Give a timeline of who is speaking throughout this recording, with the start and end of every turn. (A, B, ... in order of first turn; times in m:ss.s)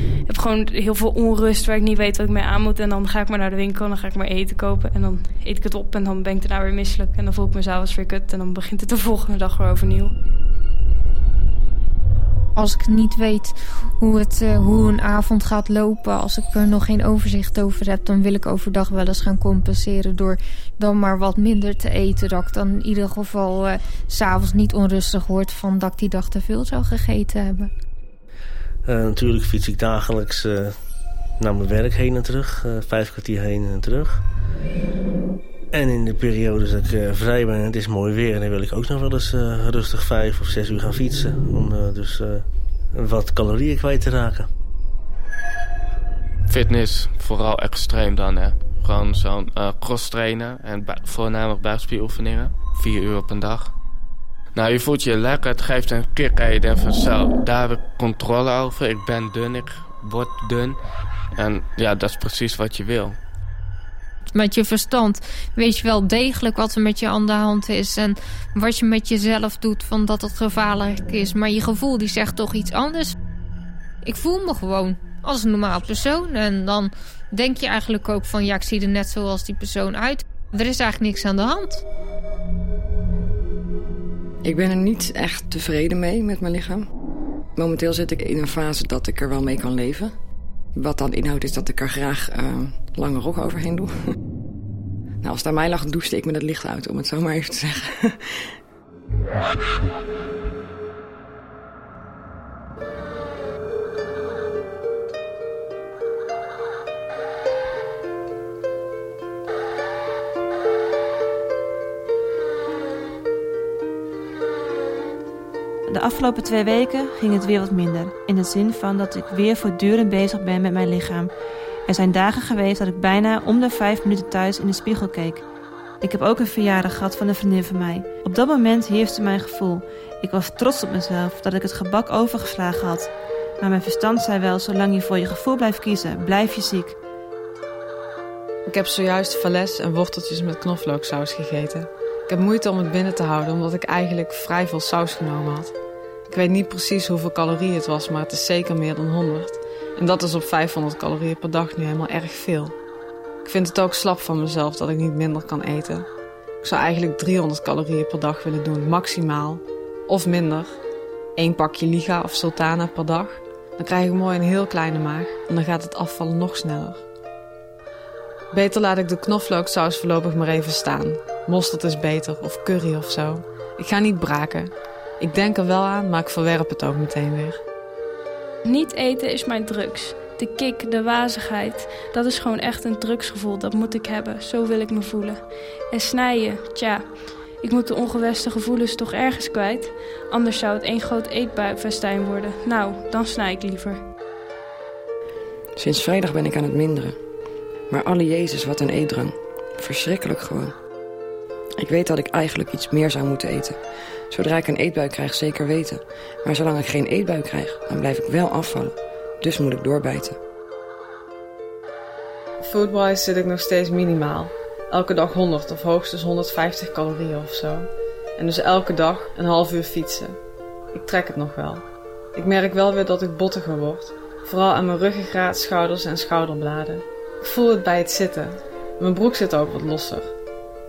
0:00.3-0:10.1 A
0:12.6-0:27.7 B
0:28.8-0:30.8 C
0:31.4-0:34.2 C
0:35.7-0:44.5 C
0:46.5-0:53.7 D
0:54.6-1:00.8 D
1:01.4-1:03.2 D
1:04.3-1:13.2 B
1:14.0-1:21.8 B
1:24.4-1:26.9 E
1:27.6-1:30.2 E
1:30.8-1:34.2 E
1:35.2-1:38.6 E
1:55.9-2:01.3 F
2:01.9-2:05.4 F
2:06.0-2:17.0 F
2:18.7-2:25.7 G
2:26.3-2:32.8 G
2:33.4-2:36.1 G
2:36.6-2:40.8 G
2:41.4-2:47.0 G
2:48.5-2:57.6 G
2:58.6-3:07.1 A
3:07.6-3:14.0 A
3:15.8-3:17.2 E
3:17.9-3:20.8 E
3:21.8-3:23.8 E
3:24.3-3:30.4 E
3:32.6-3:40.4 G
3:40.9-3:41.8 G
3:42.4-3:50.3 G